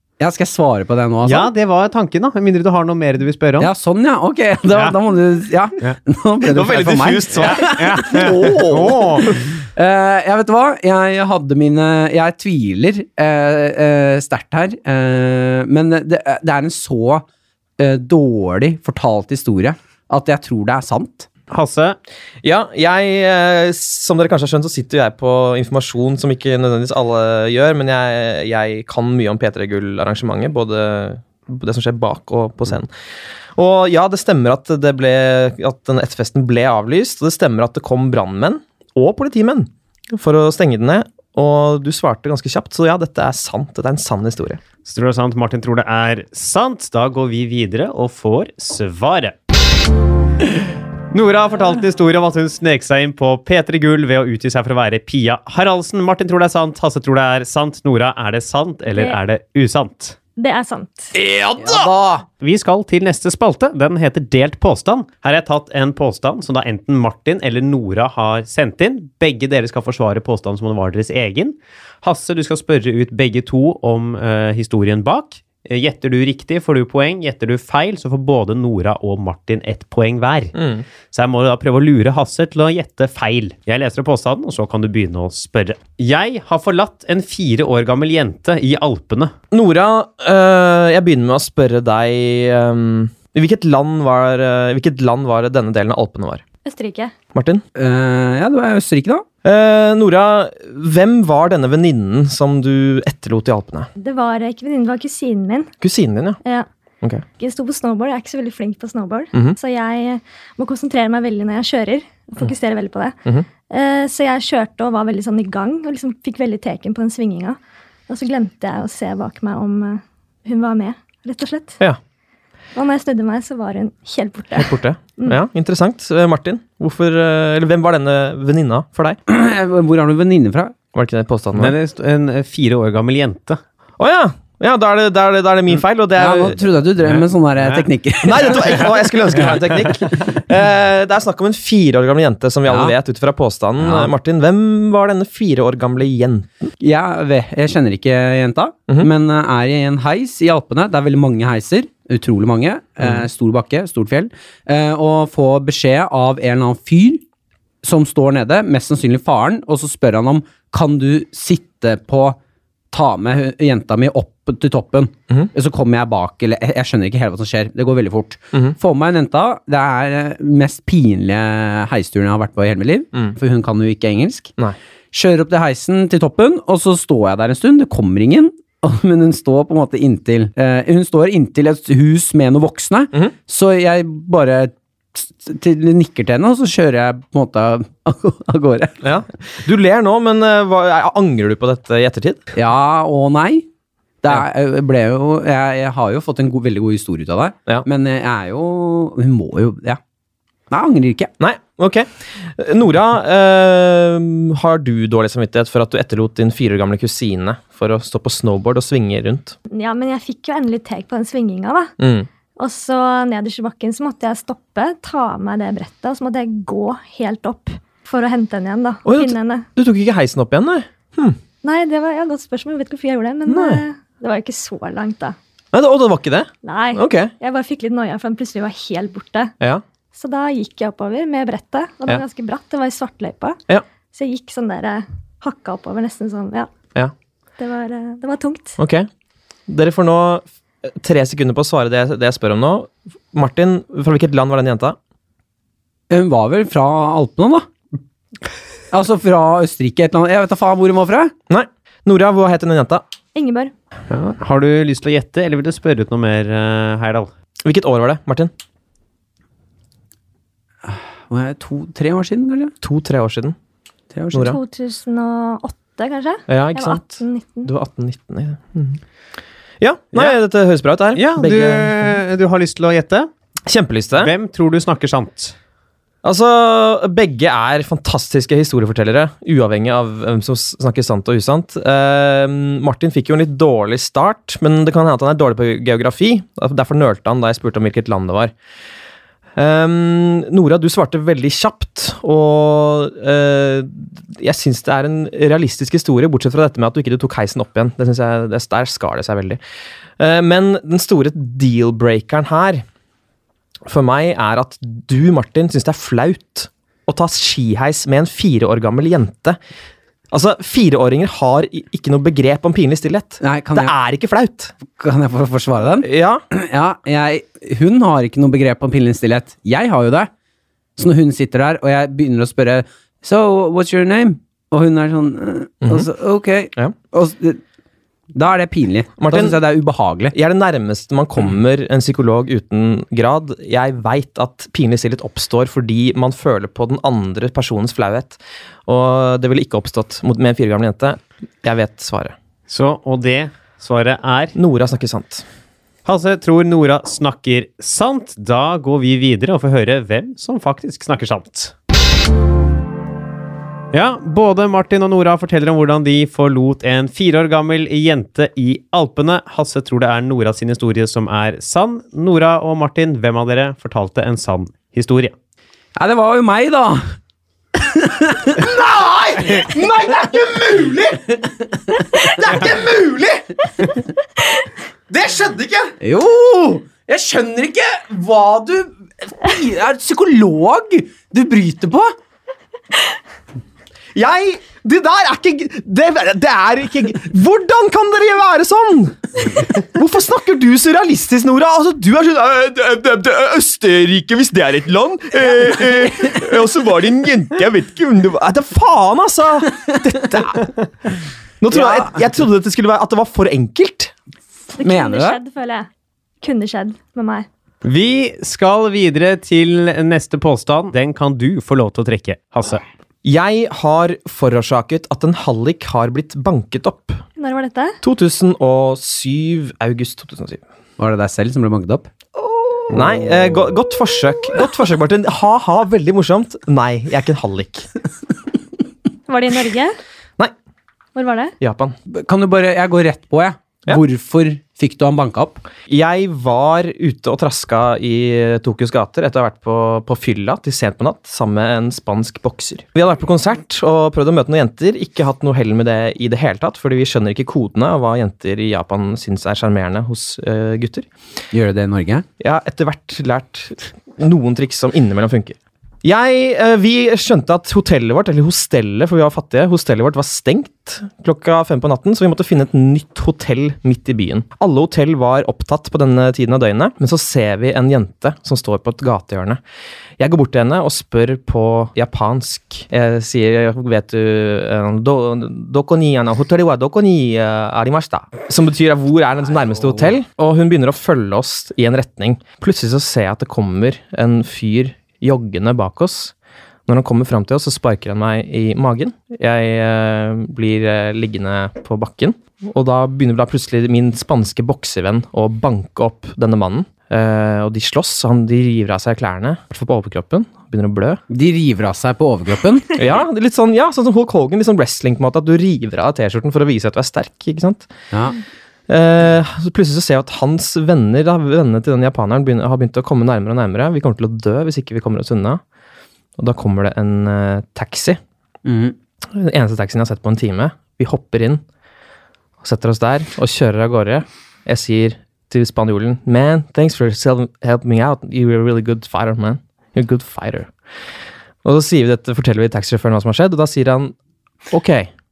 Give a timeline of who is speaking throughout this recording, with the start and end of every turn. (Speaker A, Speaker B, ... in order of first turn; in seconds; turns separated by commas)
Speaker A: 0.2-1.5, Speaker B: 1.2-3.7, Speaker A: 3.6-17.2, Speaker B: 4.7-5.0, Speaker C: 6.5-9.3, Speaker B: 7.3-9.4, Speaker A: 17.8-21.3, Speaker B: 21.5-22.0, Speaker C: 22.4-32.9, Speaker C: 33.5-44.6, Speaker B: 44.8-49.4, Speaker B: 51.1-60.2, Speaker D: 60.4-61.1, Speaker A: 61.5-62.2, Speaker B: 62.4-80.6, Speaker C: 80.5-80.8, Speaker B: 81.1-89.3, Speaker C: 89.5-96.4, Speaker D: 96.6-97.1, Speaker C: 97.3-97.6, Speaker A: 97.7-99.2, Speaker C: 99.4-103.9, Speaker D: 104.0-105.7, Speaker C: 105.8-106.4, Speaker D: 107.4-113.2, Speaker D: 113.7-117.6, Speaker D: 118.1-121.8, Speaker D: 122.8-125.4, Speaker C: 124.6-129.2, Speaker A: 129.3-130.7, Speaker C: 130.9-131.7, Speaker B: 131.5-133.6, Speaker C: 134.0-136.6, Speaker A: 136.2-138.9, Speaker C: 138.2-146.7, Speaker A: 142.7-142.9, Speaker A: 143.8-144.1, Speaker A: 146.8-157.2, Speaker C: 153.0-153.3, Speaker A: 157.8-162.4, Speaker A: 162.9-174.5, Speaker A: 175.1-189.0, Speaker C: 189.0-192.5, Speaker A: 192.5-193.7, Speaker A: 194.2-200.0, Speaker A: 200.7-201.3, Speaker C: 201.4-209.6, Speaker D: 209.7-211.9, Speaker C: 212.0-212.3, Speaker D: 212.6-219.7, Speaker C: 219.1-221.4, Speaker D: 221.6-225.4, Speaker C: 223.5-223.8, Speaker C: 225.7-227.3, Speaker D: 226.6-229.5, Speaker D: 230.1-233.6, Speaker D: 234.1-236.7, Speaker D: 237.6-238.8, Speaker C: 238.8-239.1, Speaker C: 239.7-245.0, Speaker A: 246.1-247.7, Speaker A: 248.9-251.3, Speaker C: 251.5-253.0, Speaker D: 253.3-253.7, Speaker B: 254.1-257.3, Speaker C: 257.6-258.5, Speaker A: 260.8-262.7, Speaker C: 262.8-263.6, Speaker A: 264.1-264.6, Speaker C: 264.3-264.6, Speaker D: 264.3-267.7, Speaker C: 266.5-269.0, Speaker C: 269.8-272.1, Speaker B: 271.1-273.3, Speaker C: 273.7-274.3, Speaker B: 274.1-275.5, Speaker C: 276.2-288.5, Speaker C: 289.6-299.6, Speaker C: 300.2-302.8, Speaker C: 303.9-309.6, Speaker C: 310.3-314.7, Speaker A: 313.4-313.9, Speaker A: 314.9-320.3, Speaker C: 316.0-316.4, Speaker A: 321.0-327.6, Speaker A: 328.3-330.3, Speaker C: 329.2-329.6, Speaker C: 330.3-342.3, Speaker B: 342.7-344.6, Speaker C: 344.6-345.4, Speaker B: 346.0-351.7, Speaker B: 353.9-365.3, Speaker A: 365.9-367.0, Speaker A: 367.7-369.9, Speaker C: 368.7-371.2, Speaker A: 371.0-372.9, Speaker C: 372.3-373.4, Speaker C: 375.1-375.9, Speaker A: 376.0-382.1, Speaker C: 384.1-400.7, Speaker C: 401.6-404.1, Speaker A: 401.7-402.1, Speaker D: 404.7-405.9, Speaker A: 404.8-405.4, Speaker D: 406.4-407.5, Speaker B: 407.8-412.8, Speaker C: 413.2-417.2, Speaker D: 417.4-418.0, Speaker C: 418.0-420.6, Speaker A: 421.0-422.1, Speaker C: 422.9-427.9, Speaker D: 429.3-429.9, Speaker D: 431.1-431.5, Speaker C: 431.6-431.9, Speaker A: 432.1-435.6, Speaker C: 435.9-451.1, Speaker A: 451.5-452.2, Speaker C: 452.4-469.6, Speaker C: 470.2-486.3, Speaker C: 486.9-501.2, Speaker A: 501.3-503.0, Speaker C: 503.0-507.9, Speaker A: 508.1-508.4, Speaker C: 508.9-515.6, Speaker C: 516.4-518.2, Speaker A: 518.6-519.0, Speaker C: 519.3-521.6, Speaker C: 522.6-530.7, Speaker C: 531.6-534.1, Speaker C: 534.7-535.1